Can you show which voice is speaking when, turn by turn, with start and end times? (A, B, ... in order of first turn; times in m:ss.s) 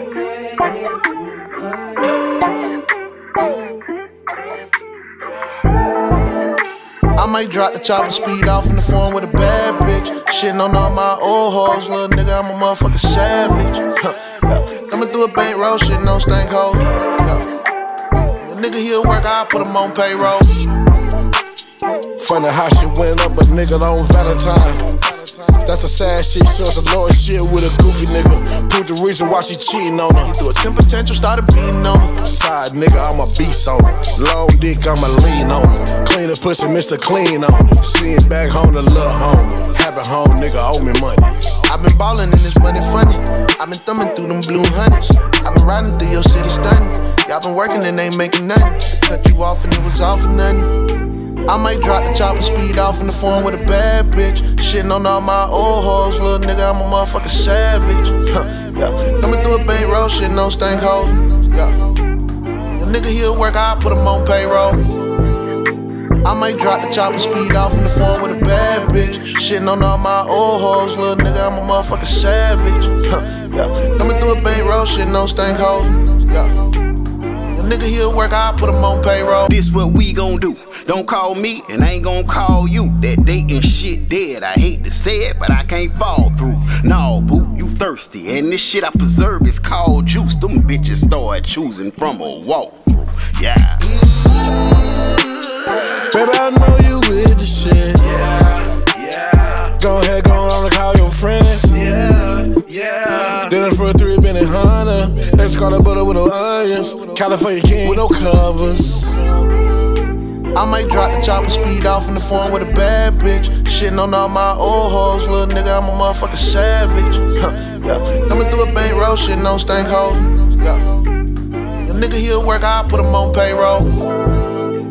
0:07.2-0:17.5 A
0:18.4-0:20.5 A
0:22.2-0:30.4 B
0:30.2-0:32.2 A
0:32.2-0:41.5 B
0:41.7-0:50.7 A
0:51.5-1:02.0 A
1:02.7-1:04.8 A
1:06.2-1:16.7 A
1:17.4-1:19.5 A
1:19.5-1:34.0 C
1:36.1-1:38.3 B
1:38.1-1:39.7 C
1:39.8-1:41.8 B
1:41.8-1:43.4 C
1:43.5-1:49.4 B
1:50.5-2:01.0 A
2:01.8-2:04.0 A